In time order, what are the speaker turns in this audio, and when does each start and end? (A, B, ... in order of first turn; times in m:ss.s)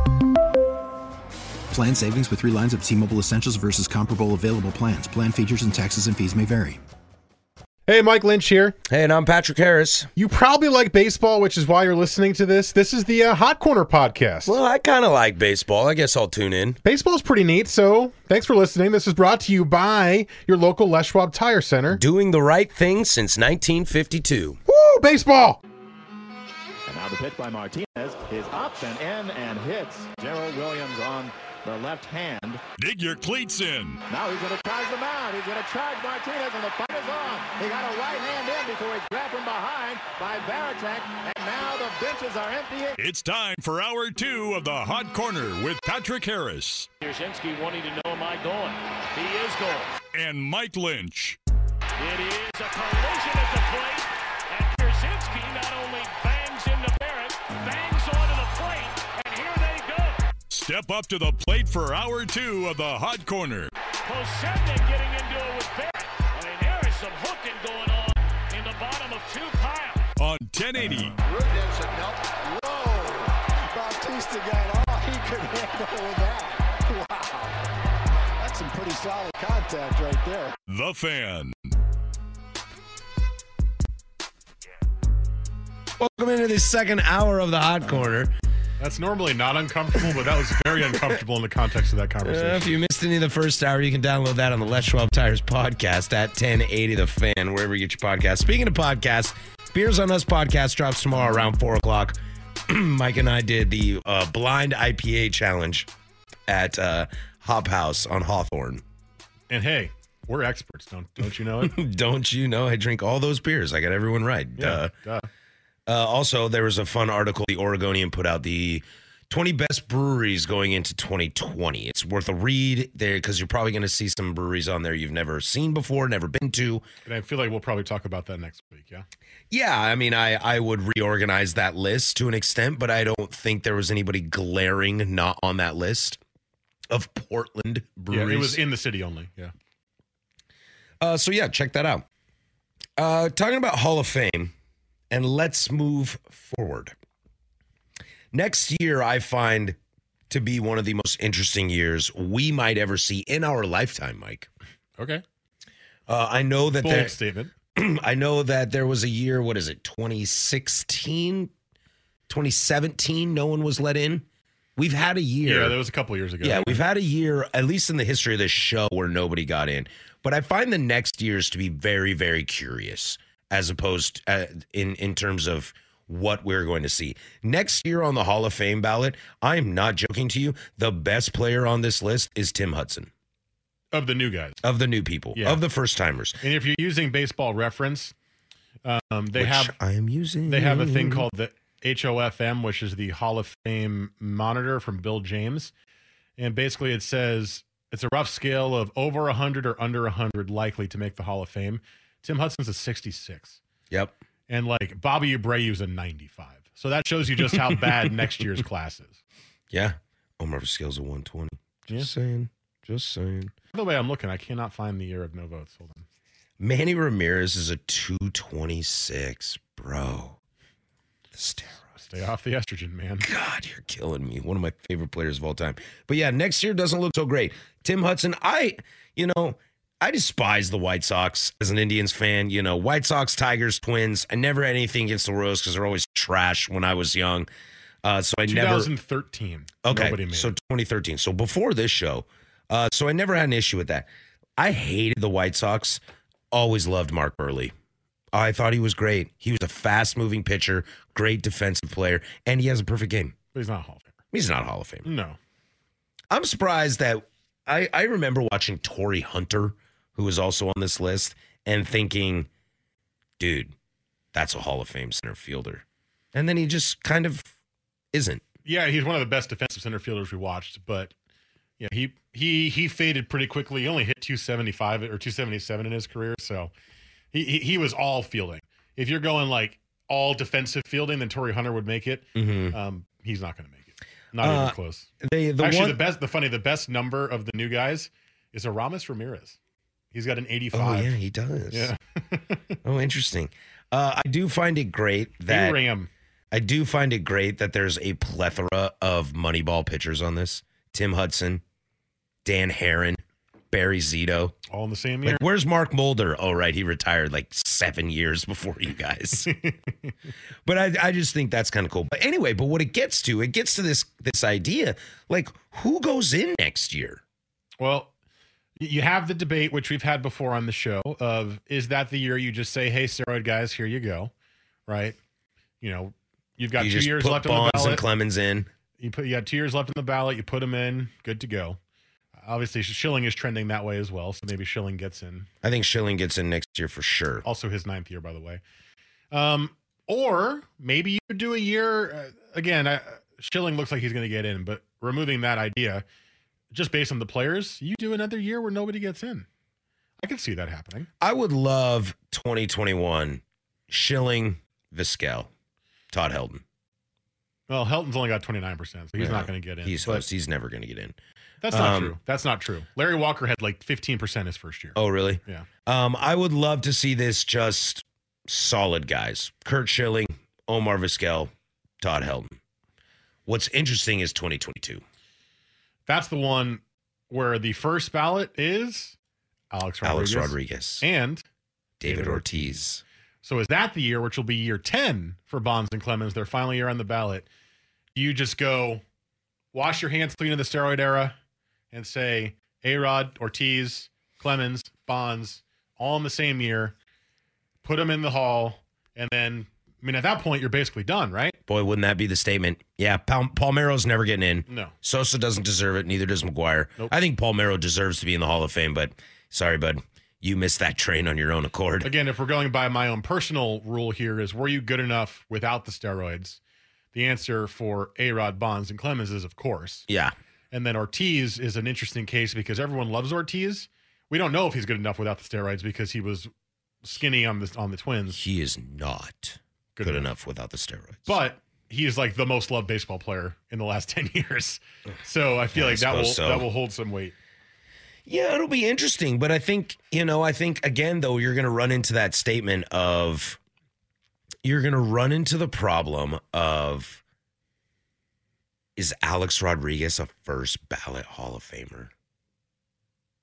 0:01.7-0:06.8 A
0:07.9-0:08.8 B
0:08.9-0:10.1 C
0:10.2-0:14.6 B
0:14.4-0:16.8 C
0:16.8-0:22.0 B
0:21.9-0:24.6 C
0:24.7-0:25.6 B
0:26.8-0:32.6 D
0:32.8-0:34.0 E
0:34.1-0:43.0 D
0:43.0-0:46.9 E
0:47.0-0:50.0 F
0:50.1-0:51.4 E
0:52.0-1:00.2 F
1:00.5-1:03.7 E
1:04.0-1:10.0 F
1:10.2-1:11.2 E
1:11.2-1:17.6 G
1:18.4-1:20.6 G
1:20.7-1:21.5 E
1:26.0-1:28.3 C
1:28.8-1:32.7 B
1:32.2-1:45.9 C
1:46.5-1:48.8 C
1:49.5-1:51.7 B
1:51.6-1:54.9 C
1:54.6-1:55.3 B
1:55.9-2:06.8 C
2:07.0-2:09.0 B
2:09.5-2:16.2 C
2:16.9-2:18.6 C
2:18.1-2:19.5 B
2:21.0-2:22.0 C
2:23.0-2:24.5 C
2:25.1-2:26.9 C
2:28.3-2:29.8 C
2:30.3-2:34.5 C
2:35.0-2:35.2 B
2:36.1-2:37.1 C
2:36.8-2:37.5 B
2:37.7-2:41.5 C
2:42.3-2:45.8 C
2:45.4-2:46.8 B
2:46.4-3:03.1 C
3:03.9-3:04.6 B
3:04.6-3:06.4 C
3:05.3-3:05.6 B
3:06.4-3:08.1 B
3:08.8-3:09.7 B
3:09.3-3:11.3 C
3:10.5-3:15.7 B
3:16.4-3:23.6 B
3:23.9-3:24.2 C
3:24.5-3:29.2 B
3:29.7-3:33.5 C
3:33.7-3:36.0 B
3:36.6-3:40.4 C
3:41.3-3:41.9 C
3:42.0-3:43.2 B
3:43.2-3:57.5 C
3:58.0-3:58.9 C
3:58.4-4:00.5 B
3:59.8-4:06.0 C
4:06.5-4:07.7 C
4:08.3-4:13.3 C
4:13.5-4:14.1 B
4:14.3-4:15.1 C
4:15.0-4:15.4 B
4:16.3-4:22.5 C
4:23.4-4:23.7 C
4:24.3-4:27.5 C
4:28.1-4:28.4 C
4:28.6-4:31.1 B
4:31.8-4:36.7 B
4:37.3-4:45.1 B
4:42.3-4:42.8 C
4:44.4-4:46.0 C
4:45.6-4:49.6 B
4:50.1-4:51.1 B
4:50.7-4:51.9 C
4:51.7-4:52.8 B
4:52.8-4:55.8 C
4:55.5-4:56.1 B
4:56.5-5:01.6 C
5:02.4-5:03.2 C
5:03.7-5:04.6 C
5:04.7-5:05.4 B
5:05.2-5:09.5 C
5:09.4-5:10.1 B
5:10.6-5:17.2 C
5:17.8-5:18.1 B
5:18.8-5:24.3 B
5:24.9-5:25.2 B
5:25.8-5:28.0 B
5:26.8-5:28.7 C
5:29.0-5:31.8 B
5:32.4-5:35.5 B
5:35.6-5:37.4 C
5:37.4-5:38.6 B
5:39.3-5:46.0 B
5:46.7-5:49.4 B
5:50.2-5:51.1 B
5:51.2-5:55.5 C
5:56.1-5:56.6 C
5:57.7-6:00.2 B
5:59.2-6:01.2 C
6:01.6-6:05.7 B
6:01.7-6:02.2 C
6:04.9-6:12.6 C
6:13.4-6:15.0 C
6:16.1-6:19.1 B
6:19.7-6:21.4 B
6:20.0-6:21.0 C
6:22.0-6:23.0 C
6:22.0-6:22.8 B
6:23.4-6:27.5 B
6:28.1-6:29.0 B
6:29.7-6:31.4 B
6:31.9-6:36.9 B
6:37.8-6:41.6 B
6:41.7-6:52.1 C
6:44.7-6:44.9 B
6:52.0-6:56.6 B
6:57.1-7:00.0 B
7:00.1-7:00.3 C
7:00.7-7:06.5 B
7:07.0-7:08.4 B
7:08.3-7:11.4 C
7:10.0-7:10.3 B
7:11.2-7:17.3 B
7:15.7-7:16.7 C
7:18.2-7:23.6 C
7:24.6-7:27.2 C
7:29.0-7:32.1 C